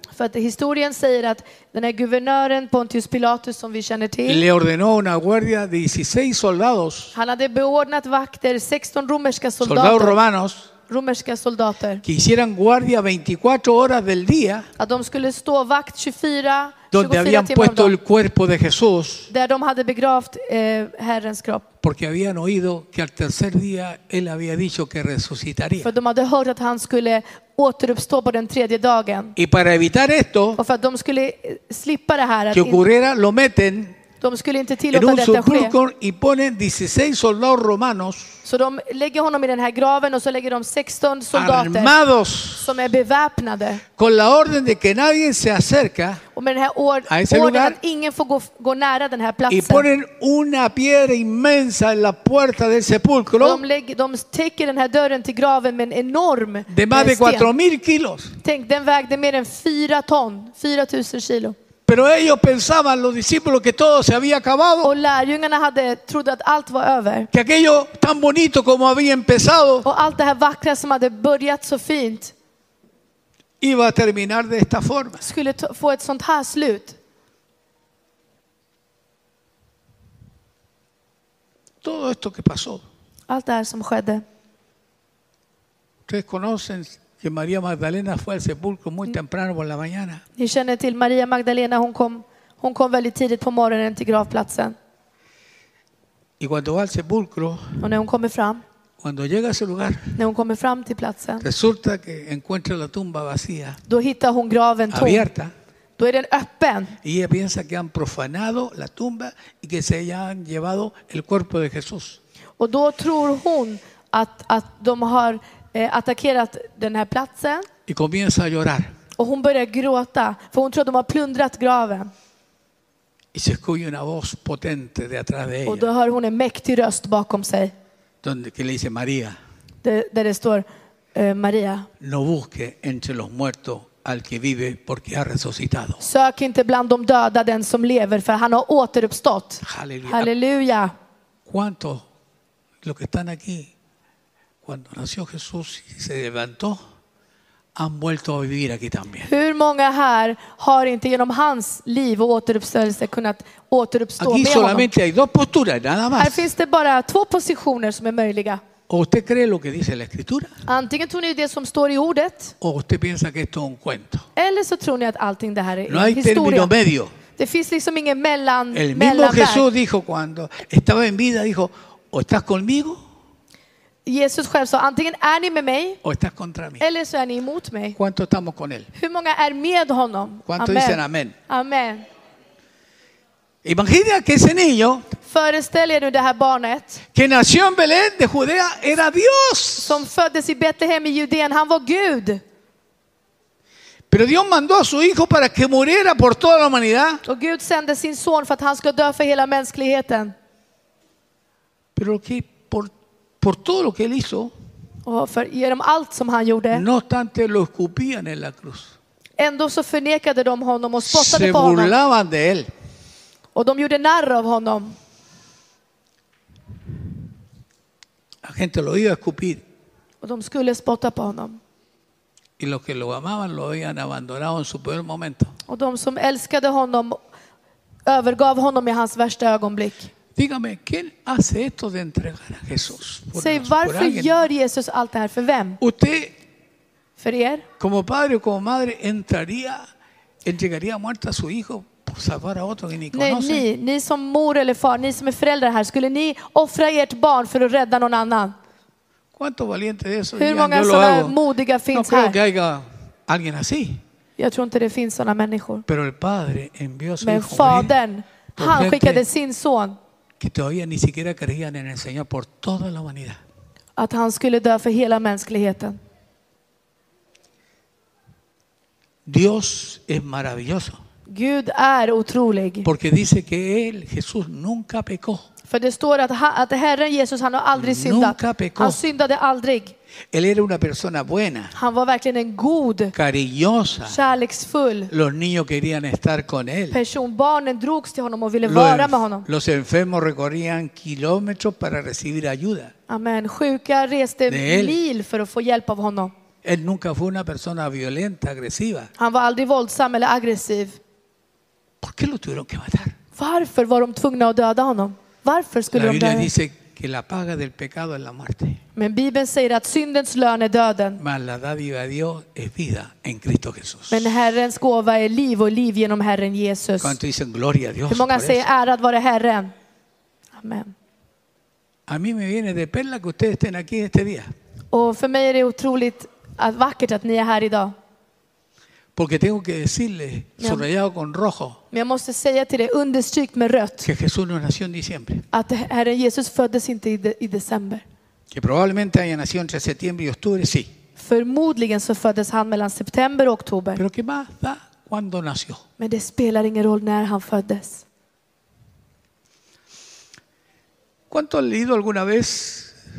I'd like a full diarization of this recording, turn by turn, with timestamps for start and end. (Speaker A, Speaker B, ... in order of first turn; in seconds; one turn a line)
Speaker A: 0.1-4.4
Speaker B: 4.3-7.1
Speaker A: 7.1-10.2
Speaker B: 9.6-10.7
Speaker A: 10.9-12.0
Speaker B: 12.0-14.7
Speaker A: 14.8-17.9
Speaker B: 16.9-19.3
Speaker A: 19.3-21.7
Speaker B: 21.8-25.9
Speaker A: 25.8-29.4
Speaker B: 29.4-30.6
Speaker A: 30.6-32.8
Speaker B: 32.5-34.0
Speaker A: 34.2-35.8
Speaker B: 34.9-38.4
Speaker A: 38.5-41.9
Speaker B: 41.3-42.8
Speaker A: 42.6-43.8
Speaker B: 44.0-46.2
Speaker A: 46.3-49.9
Speaker B: 47.1-47.8
Speaker B: 49.5-53.6
Speaker A: 53.4-57.5
Speaker B: 56.7-58.4
Speaker A: 58.4-61.6
Speaker B: 61.9-64.9
Speaker A: 64.8-67.3
Speaker B: 67.3-69.9
Speaker A: 69.8-72.3
Speaker B: 73.6-75.2
Speaker A: 75.2-77.0
Speaker B: 81.8-82.8
Speaker A: 83.3-84.2
Speaker B: 86.1-90.2
Speaker A: 90.4-94.8
Speaker B: 96.4-97.8
Speaker A: 97.8-98.6
Speaker B: 99.0-100.2
Speaker A: 100.2-101.5
Speaker B: 101.4-103.8
Speaker A: 103.9-105.3
Speaker B: 104.9-105.5
Speaker A: 106.0-107.0
Speaker B: 107.0-112.2
Speaker A: 112.6-117.7
Speaker B: 117.9-118.9
Speaker A: 119.2-122.1
Speaker B: 123.3-125.9
Speaker A: 125.7-127.7
Speaker B: 128.2-129.4
Speaker A: 129.8-131.9
Speaker B: 132.0-136.0
Speaker A: 136.0-140.9
Speaker B: 139.6-140.3
Speaker B: 141.5-142.0
Speaker B: 142.8-143.7
Speaker B: 144.6-146.8
Speaker B: 147.8-149.3
Speaker A: 149.2-154.9
Speaker B: 154.2-156.5
Speaker A: 156.2-158.6
Speaker B: 158.9-160.5
Speaker A: 160.7-162.6
Speaker B: 162.6-164.3
Speaker A: 164.4-166.7
Speaker B: 165.9-167.1
Speaker A: 167.4-169.7
Speaker B: 168.7-173.0
Speaker A: 174.1-176.0
Speaker B: 176.0-176.8
Speaker A: 176.8-178.0
Speaker B: 178.0-178.9
Speaker A: 178.9-182.1
Speaker B: 180.5-181.3
Speaker B: 183.6-185.1
Speaker A: 185.2-187.0
Speaker B: 187.2-190.1
Speaker A: 189.8-192.4
Speaker B: 194.1-197.2
Speaker A: 197.2-200.3
Speaker B: 202.0-204.5
Speaker A: 205.1-206.8
Speaker B: 206.7-208.9
Speaker A: 209.4-211.9
Speaker B: 211.0-212.7
Speaker A: 213.6-214.9
Speaker B: 218.4-219.6
Speaker A: 220.2-221.6
Speaker B: 222.6-225.5
Speaker A: 225.7-227.2
Speaker A: 228.1-230.1
Speaker B: 230.4-234.4
Speaker A: 233.4-235.8
Speaker B: 235.8-236.3
Speaker A: 237.2-237.7
Speaker B: 237.8-239.8
Speaker B: 240.4-243.7
Speaker A: 243.1-248.6
Speaker B: 249.3-251.4
Speaker A: 250.4-252.4
Speaker B: 251.9-254.0
Speaker A: 254.4-255.8
Speaker B: 255.9-257.9
Speaker A: 257.2-260.0
Speaker B: 258.6-259.2
Speaker B: 260.4-263.4
Speaker A: 264.0-266.0
Speaker B: 269.3-271.0
Speaker A: 271.3-272.9
Speaker B: 272.8-275.4
Speaker A: 275.7-279.9
Speaker B: 277.8-279.0
Speaker B: 280.3-281.7
Speaker A: 281.7-283.1
Speaker B: 283.1-284.2
Speaker A: 284.1-285.1
Speaker B: 285.1-287.0
Speaker A: 286.9-289.5
Speaker B: 288.6-292.9
Speaker A: 293.1-296.3
Speaker B: 294.5-295.0
Speaker B: 296.6-299.1
Speaker A: 299.2-301.0
Speaker B: 302.0-303.1
Speaker A: 303.4-306.5
Speaker B: 305.9-308.8
Speaker A: 308.9-311.2
Speaker B: 311.2-314.3
Speaker A: 314.1-317.2
Speaker B: 317.0-318.7
Speaker A: 318.1-319.7
Speaker A: 320.6-320.9
Speaker B: 322.1-324.5
Speaker A: 324.9-327.9
Speaker B: 329.2-331.8
Speaker A: 330.6-330.9
Speaker A: 331.9-334.1
Speaker B: 334.0-335.5
Speaker A: 335.5-338.0
Speaker B: 338.5-340.9
Speaker A: 341.2-344.0
Speaker B: 344.0-345.8
Speaker A: 346.0-348.0
Speaker B: 351.3-353.0